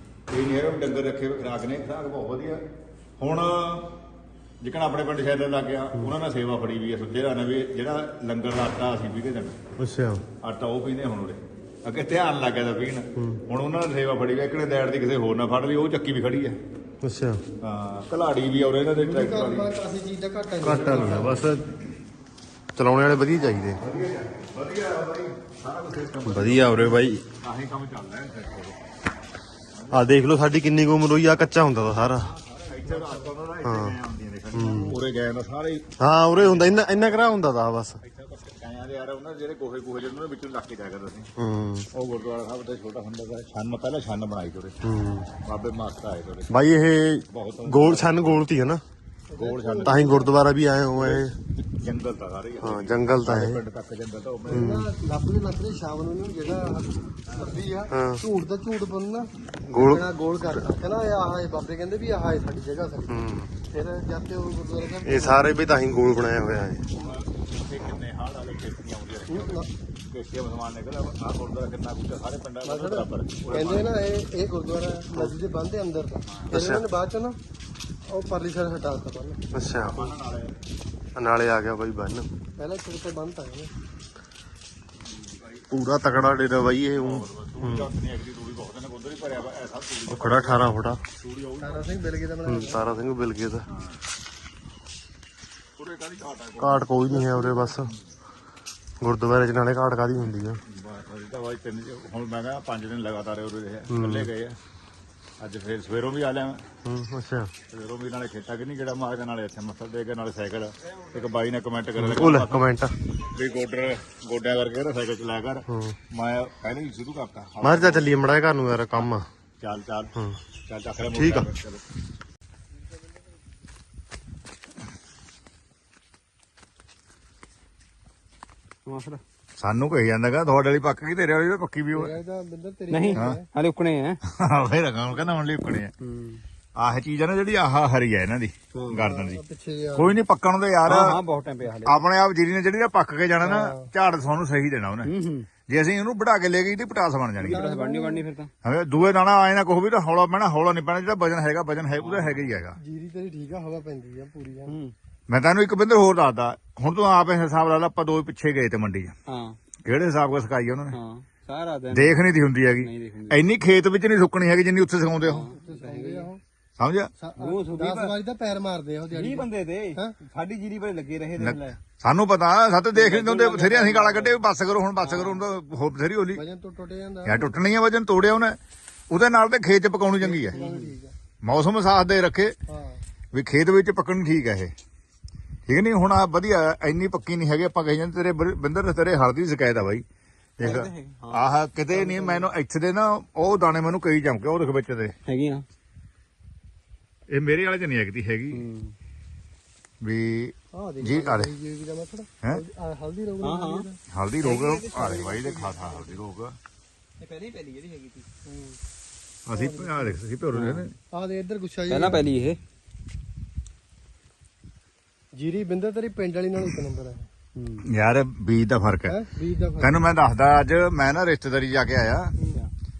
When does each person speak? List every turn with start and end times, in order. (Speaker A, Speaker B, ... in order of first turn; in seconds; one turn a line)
Speaker A: 0.3-2.6
Speaker A: 3.2-3.9
Speaker A: 4.6-9.6
Speaker B: 9.8-10.2
Speaker A: 10.4-16.6
Speaker B: 17.0-17.4
Speaker A: 17.6-19.7
Speaker C: 19.0-21.4
Speaker B: 20.6-21.7
Speaker B: 22.7-23.8
Speaker A: 23.8-28.8
Speaker B: 26.3-27.2
Speaker A: 29.7-30.1
Speaker B: 29.9-32.3
Speaker A: 32.2-37.3
Speaker C: 32.9-33.2
Speaker B: 33.6-33.9
Speaker B: 34.5-35.0
Speaker B: 36.0-38.0
Speaker A: 38.0-41.3
Speaker B: 41.4-41.9
Speaker A: 41.9-44.8
Speaker B: 44.8-45.3
Speaker A: 45.4-46.5
Speaker B: 46.5-48.8
Speaker A: 47.3-48.4
Speaker C: 49.3-50.3
Speaker A: 49.3-50.1
Speaker B: 49.8-51.3
Speaker A: 51.0-54.7
Speaker B: 52.6-53.6
Speaker C: 54.5-63.1
Speaker B: 54.5-54.9
Speaker B: 57.9-58.2
Speaker B: 59.6-60.1
Speaker B: 63.1-63.5
Speaker C: 63.7-65.5
Speaker B: 65.0-66.9
Speaker A: 66.9-73.9
Speaker C: 69.3-69.7
Speaker C: 72.6-77.4
Speaker A: 76.3-76.6
Speaker B: 76.5-76.8
Speaker C: 78.0-79.4
Speaker B: 79.5-80.0
Speaker A: 79.8-80.6
Speaker B: 81.2-82.3
Speaker C: 82.6-83.7
Speaker A: 85.1-85.6
Speaker B: 85.7-87.9
Speaker A: 87.0-91.9
Speaker B: 90.1-91.0
Speaker C: 91.6-92.8
Speaker B: 92.5-93.7
Speaker A: 93.7-94.0
Speaker A: 95.8-97.9
Speaker B: 96.6-97.9
Speaker B: 99.0-100.6
Speaker A: 100.7-104.6
Speaker B: 103.9-104.3
Speaker A: 105.4-106.6
Speaker B: 106.8-107.5
Speaker A: 107.7-112.6
Speaker B: 112.0-112.9
Speaker A: 113.3-118.2
Speaker B: 115.7-116.0
Speaker B: 117.6-119.3
Speaker A: 119.6-120.1
Speaker A: 120.7-121.8
Speaker B: 121.1-121.5
Speaker D: 128.8-129.2
Speaker A: 129.6-132.2
Speaker C: 131.9-133.4
Speaker D: 132.9-134.2
Speaker A: 134.2-135.9
Speaker D: 136.0-136.4
Speaker A: 136.8-139.4
Speaker D: 138.7-139.0
Speaker C: 139.1-140.2
Speaker A: 139.9-141.2
Speaker D: 140.8-142.0
Speaker A: 141.8-145.1
Speaker C: 143.4-143.9
Speaker D: 145.0-145.5
Speaker A: 145.7-147.6
Speaker D: 147.4-148.5
Speaker C: 147.4-148.2
Speaker A: 148.6-152.8
Speaker D: 152.0-152.5
Speaker C: 152.8-154.7
Speaker D: 154.7-154.9
Speaker A: 155.3-159.1
Speaker D: 159.3-159.6
Speaker A: 159.8-161.0
Speaker D: 160.9-162.2
Speaker A: 161.9-165.5
Speaker D: 162.8-163.4
Speaker D: 165.2-166.3
Speaker C: 165.3-166.4
Speaker A: 166.8-167.1
Speaker C: 167.2-170.2
Speaker D: 167.4-168.1
Speaker D: 169.1-171.8
Speaker A: 171.4-176.4
Speaker D: 172.9-174.4
Speaker D: 175.0-175.4
Speaker C: 176.3-177.6
Speaker A: 177.2-178.6
Speaker A: 179.1-180.6
Speaker C: 180.2-181.1
Speaker D: 180.5-180.9
Speaker A: 181.4-182.6
Speaker C: 182.7-183.0
Speaker A: 183.3-184.7
Speaker A: 185.7-190.0
Speaker A: 190.6-195.1
Speaker D: 190.6-191.5
Speaker C: 190.6-190.9
Speaker C: 191.9-192.4
Speaker D: 195.2-195.6
Speaker A: 197.3-198.6
Speaker D: 198.5-198.9
Speaker A: 200.0-201.5
Speaker C: 200.7-204.0
Speaker D: 203.4-203.8
Speaker A: 204.1-206.6
Speaker D: 204.4-206.2
Speaker D: 207.2-208.2
Speaker C: 208.4-208.8
Speaker A: 209.5-210.9
Speaker C: 209.5-210.2
Speaker D: 210.5-210.8
Speaker C: 211.1-212.2
Speaker D: 211.9-212.6
Speaker C: 215.3-217.3
Speaker D: 217.6-217.8
Speaker A: 217.9-219.2
Speaker C: 219.1-220.1
Speaker A: 219.8-222.3